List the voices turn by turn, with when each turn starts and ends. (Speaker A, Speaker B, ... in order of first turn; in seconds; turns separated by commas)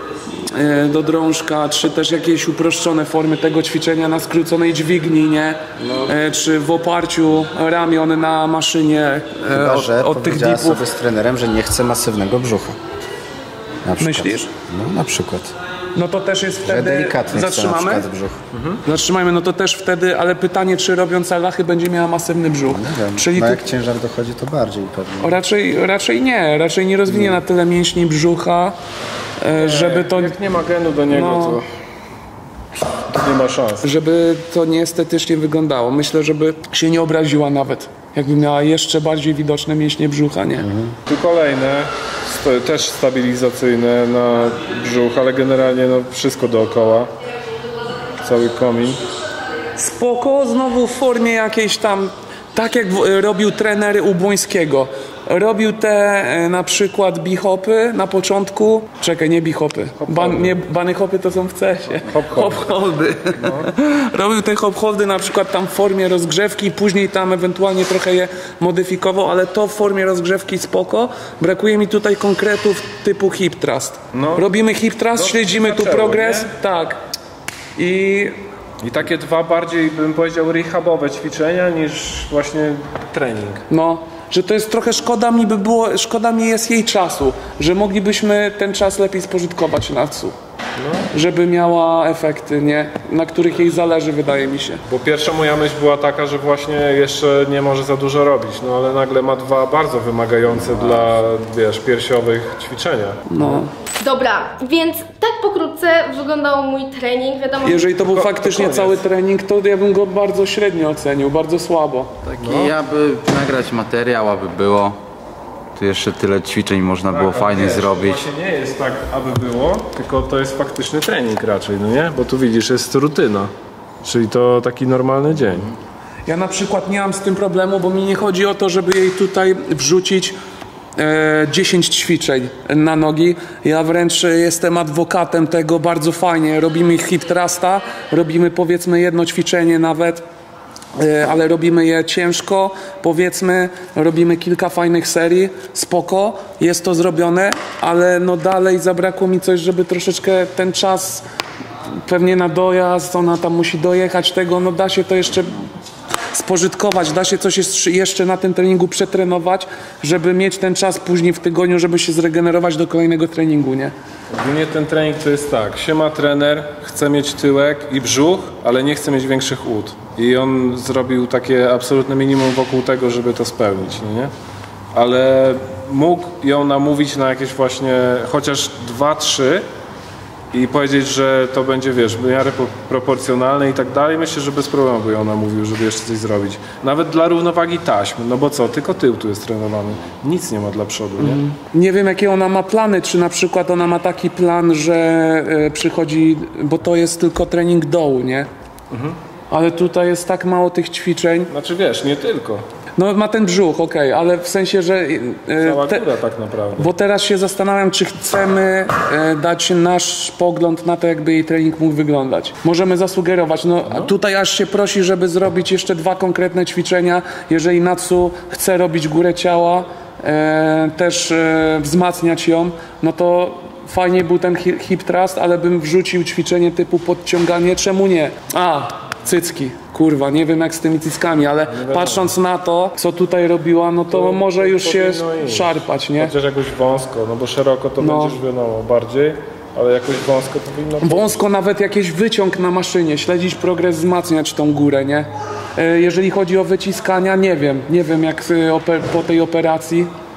Speaker A: 0.5-10.8, Speaker B: 9.5-12.8, Speaker B: 13.8-15.5, Speaker A: 14.0-14.5, Speaker A: 15.9-18.1, Speaker B: 16.6-18.4, Speaker C: 18.5-18.8, Speaker A: 18.8-23.6, Speaker B: 22.7-25.4, Speaker A: 25.2-28.8, Speaker B: 27.1-27.4, Speaker A: 29.4-30.3, Speaker C: 29.6-31.6, Speaker A: 31.1-31.6, Speaker C: 33.1-33.8, Speaker A: 33.8-40.7, Speaker B: 40.6-40.9, Speaker C: 41.0-47.1, Speaker C: 48.2-49.0, Speaker A: 49.8-77.0, Speaker C: 60.0-60.6, Speaker C: 62.1-62.6, Speaker C: 63.4-63.7, Speaker C: 74.1-74.5, Speaker C: 75.1-76.5, Speaker A: 77.8-78.4, Speaker C: 78.8-83.6, Speaker A: 83.7-90.3, Speaker C: 90.8-91.1, Speaker A: 91.1-94.8, Speaker C: 94.9-103.6, Speaker A: 103.3-103.7, Speaker D: 104.0-107.9, Speaker A: 107.6-112.1, Speaker C: 108.0-109.0, Speaker E: 112.2-115.0, Speaker C: 112.4-112.8, Speaker E: 115.8-118.2, Speaker C: 117.1-123.5, Speaker C: 124.0-125.7, Speaker A: 126.3-130.4, Speaker A: 131.0-140.2, Speaker A: 141.0-151.2, Speaker A: 152.1-155.6, Speaker A: 156.3-163.9, Speaker C: 164.3-174.3, Speaker C: 174.9-179.6, Speaker C: 180.5-191.4, Speaker A: 191.2-198.5, Speaker C: 198.9-199.2, Speaker A: 199.5-201.5, Speaker C: 201.5-202.6, Speaker A: 203.0-206.1, Speaker C: 205.6-206.9, Speaker A: 206.8-236.3, Speaker C: 213.8-214.1, Speaker C: 231.7-232.3, Speaker C: 234.1-241.4, Speaker A: 238.0-238.4, Speaker A: 241.0-250.1